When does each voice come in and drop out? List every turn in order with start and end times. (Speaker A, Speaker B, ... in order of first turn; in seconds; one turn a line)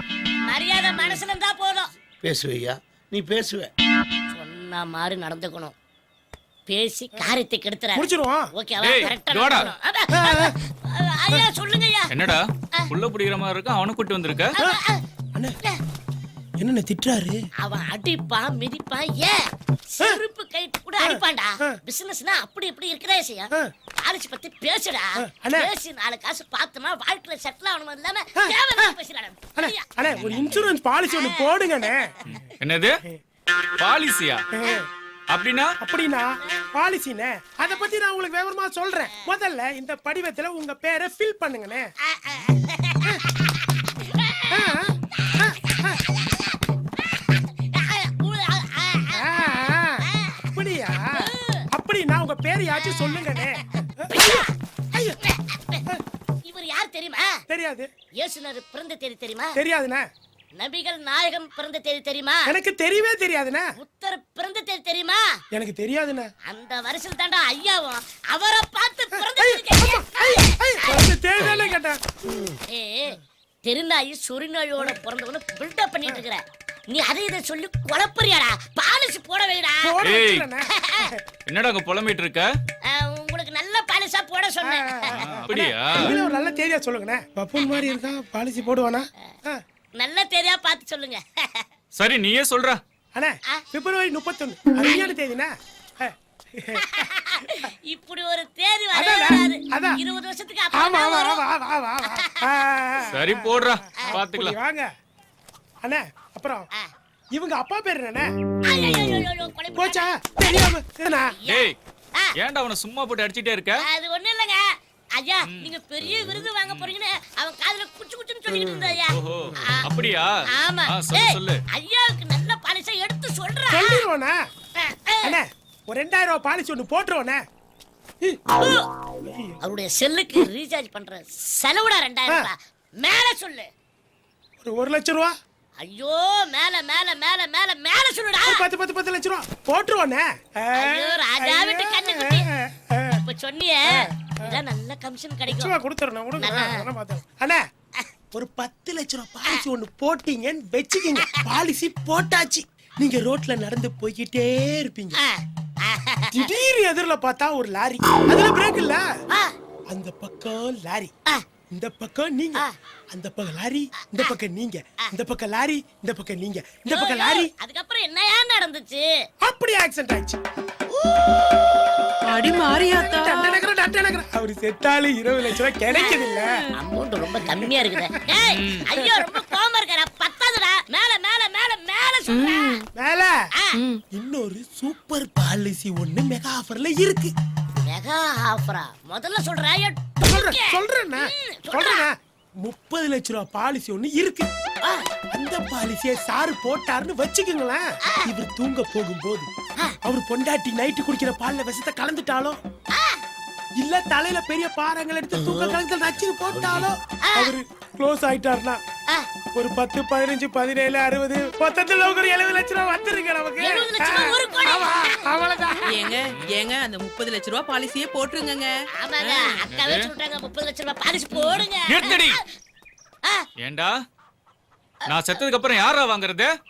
Speaker A: 0.4-1.9
Speaker B: 2.2-3.7
Speaker A: 4.3-5.7
Speaker A: 6.7-12.1
Speaker C: 8.0-8.5
Speaker D: 8.8-9.7
Speaker C: 10.1-10.6
Speaker D: 12.1-14.6
Speaker A: 14.6-15.0
Speaker C: 16.6-17.4
Speaker A: 17.6-32.0
Speaker C: 21.0-21.8
Speaker C: 25.2-25.7
Speaker C: 28.4-29.0
Speaker C: 29.6-32.1
Speaker D: 30.2-30.6
Speaker D: 32.3-32.9
Speaker D: 33.8-34.4
Speaker C: 34.6-34.9
Speaker D: 35.3-35.7
Speaker C: 35.8-41.9
Speaker A: 37.6-37.9
Speaker A: 39.1-39.4
Speaker A: 42.0-51.6
Speaker C: 44.5-46.0
Speaker C: 49.1-50.0
Speaker C: 50.5-54.4
Speaker A: 52.7-55.8
Speaker A: 56.5-57.4
Speaker C: 57.5-57.9
Speaker A: 58.2-59.6
Speaker C: 59.5-60.0
Speaker A: 60.5-62.5
Speaker C: 62.5-63.7
Speaker A: 63.8-65.4
Speaker C: 65.5-66.3
Speaker A: 66.5-71.8
Speaker C: 69.1-72.0
Speaker B: 72.3-72.6
Speaker A: 72.7-80.0
Speaker C: 74.8-75.0
Speaker C: 79.8-81.2
Speaker D: 80.0-80.5
Speaker A: 80.7-81.0
Speaker D: 81.5-82.5
Speaker A: 82.9-85.1
Speaker C: 84.6-89.6
Speaker D: 85.3-86.1
Speaker A: 87.6-88.1
Speaker A: 90.0-91.7
Speaker D: 92.0-92.8
Speaker C: 93.2-96.8
Speaker A: 94.8-95.2
Speaker A: 96.8-101.5
Speaker C: 99.0-100.0
Speaker C: 100.7-104.9
Speaker A: 102.0-102.5
Speaker D: 103.1-104.6
Speaker A: 104.0-104.2
Speaker C: 105.8-106.7
Speaker C: 107.3-108.3
Speaker A: 108.7-110.7
Speaker C: 109.7-111.4
Speaker A: 111.3-112.3
Speaker D: 111.5-111.7
Speaker D: 112.4-113.8
Speaker A: 113.8-119.1
Speaker D: 115.5-115.7
Speaker D: 116.7-116.9
Speaker B: 118.5-119.6
Speaker D: 119.1-121.6
Speaker A: 119.6-124.1
Speaker C: 123.7-124.4
Speaker A: 124.8-125.4
Speaker C: 125.2-127.4
Speaker A: 128.6-128.9
Speaker C: 129.3-129.6
Speaker A: 129.6-133.7
Speaker C: 134.6-135.3
Speaker A: 135.8-138.7
Speaker C: 138.4-143.2
Speaker A: 140.7-142.5
Speaker A: 143.2-145.8
Speaker C: 143.9-144.6
Speaker C: 145.5-147.6
Speaker A: 146.4-146.8
Speaker C: 148.3-155.2
Speaker A: 151.1-151.6
Speaker A: 155.1-156.6
Speaker C: 156.3-159.1
Speaker C: 159.9-161.1
Speaker C: 161.7-167.5
Speaker A: 164.0-164.4
Speaker A: 166.9-169.2
Speaker C: 169.4-170.4
Speaker A: 170.9-171.5
Speaker E: 172.3-173.6
Speaker C: 172.9-176.5
Speaker A: 175.9-182.8
Speaker C: 177.3-178.2
Speaker D: 178.5-178.9
Speaker C: 179.3-179.6
Speaker E: 182.3-182.8
Speaker C: 183.0-183.4
Speaker E: 183.8-184.0
Speaker C: 184.1-187.3
Speaker A: 187.8-192.1
Speaker C: 190.2-194.5
Speaker C: 195.3-199.5
Speaker C: 200.0-202.6
Speaker A: 202.9-203.2
Speaker C: 203.8-208.8
Speaker B: 205.4-206.9
Speaker A: 207.2-207.6
Speaker C: 209.6-215.8
Speaker A: 213.6-215.3
Speaker E: 215.8-219.6
Speaker A: 219.0-222.4
Speaker D: 219.7-220.1
Speaker D: 221.3-222.4
Speaker D: 223.6-223.9
Speaker D: 225.1-226.5